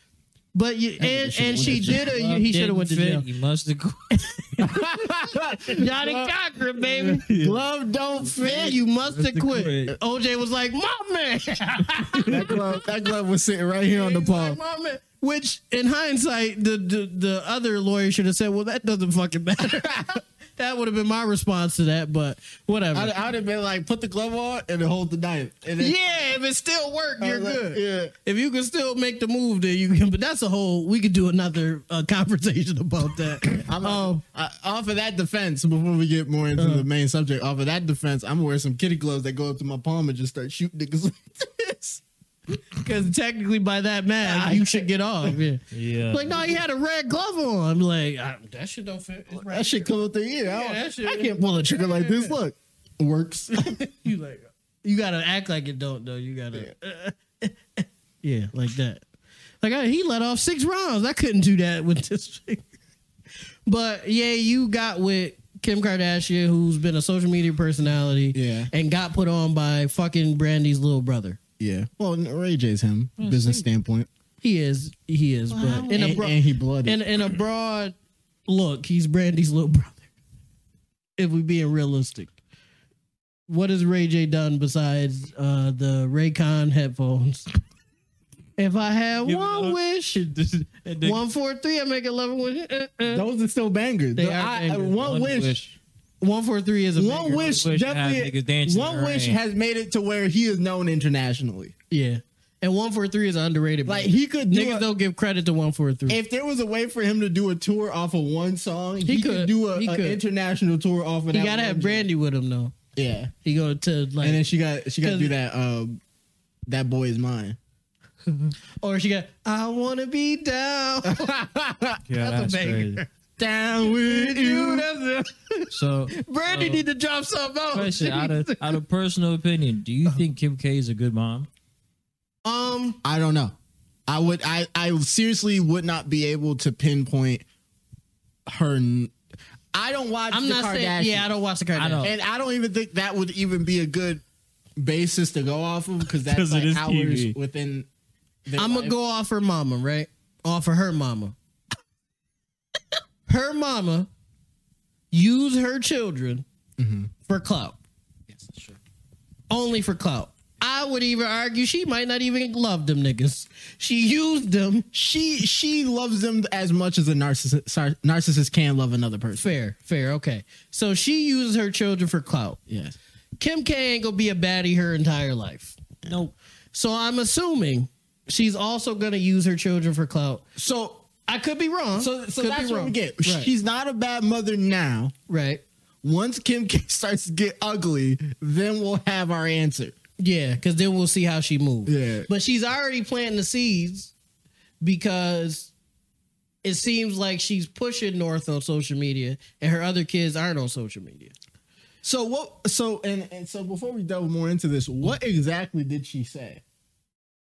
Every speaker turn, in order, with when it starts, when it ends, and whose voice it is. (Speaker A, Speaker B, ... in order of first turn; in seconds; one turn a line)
Speaker A: 0.5-3.2
Speaker B: 1.0-2.1
Speaker C: 1.6-4.9
Speaker B: 4.6-6.3
Speaker A: 5.7-7.3
Speaker C: 7.0-7.6
Speaker B: 7.2-8.8
Speaker A: 8.3-12.8
Speaker C: 9.1-9.9
Speaker B: 12.3-14.6
Speaker A: 13.9-23.1
Speaker B: 19.7-20.1
Speaker B: 22.9-26.3
Speaker A: 25.8-34.2
Speaker B: 27.2-28.1
Speaker B: 33.5-42.0
Speaker A: 36.6-36.9
Speaker A: 42.7-52.4
Speaker B: 44.2-45.4
Speaker C: 45.7-46.4
Speaker B: 49.3-53.8
Speaker A: 53.5-59.0
Speaker A: 59.6-62.7
Speaker A: 63.7-71.4
Speaker B: 68.3-68.7
Speaker B: 71.6-74.1
Speaker C: 73.2-73.6
Speaker A: 74.4-78.0
Speaker B: 75.5-77.0
Speaker A: 78.5-80.1
Speaker A: 81.2-82.3
Speaker A: 83.5-87.5
Speaker A: 88.6-90.2
Speaker C: 89.2-91.2
Speaker A: 91.0-93.3
Speaker B: 93.1-95.6
Speaker A: 94.2-95.1
Speaker C: 95.0-95.7
Speaker A: 96.2-97.7
Speaker B: 97.0-101.7
Speaker C: 97.5-99.4
Speaker A: 101.9-106.2
Speaker B: 103.9-104.9
Speaker B: 106.1-112.1
Speaker A: 109.0-110.2
Speaker A: 111.3-112.8
Speaker B: 113.0-113.3
Speaker A: 113.4-114.4
Speaker B: 114.2-116.0
Speaker A: 115.0-115.3
Speaker B: 116.7-117.6
Speaker A: 118.8-121.4
Speaker B: 121.1-122.0
Speaker C: 122.1-123.0
Speaker A: 122.2-123.1
Speaker B: 123.4-124.9
Speaker A: 123.8-128.8
Speaker C: 125.7-126.8
Speaker C: 127.7-131.5
Speaker A: 132.4-133.0
Speaker B: 133.0-133.6
Speaker B: 134.1-137.4
Speaker B: 138.5-139.1
Speaker B: 139.7-141.3
Speaker A: 140.3-142.1
Speaker C: 141.8-142.1
Speaker B: 142.0-144.2
Speaker B: 144.8-147.9
Speaker C: 146.2-147.3
Speaker B: 148.4-149.0
Speaker A: 148.6-151.3
Speaker A: 153.3-154.1
Speaker A: 155.1-156.4
Speaker B: 156.8-157.1
Speaker A: 157.3-157.8
Speaker B: 158.3-158.8
Speaker A: 159.5-164.9
Speaker B: 164.9-169.6
Speaker A: 169.4-172.6
Speaker B: 172.7-173.0
Speaker A: 173.4-175.8
Speaker C: 176.1-176.3
Speaker A: 176.7-180.4
Speaker B: 180.6-181.1
Speaker A: 181.3-183.5
Speaker B: 182.0-185.1
Speaker A: 185.3-185.6
Speaker B: 186.0-189.9
Speaker A: 190.2-194.1
Speaker B: 191.9-192.3
Speaker A: 194.8-195.7
Speaker A: 196.6-201.3
Speaker B: 202.0-206.6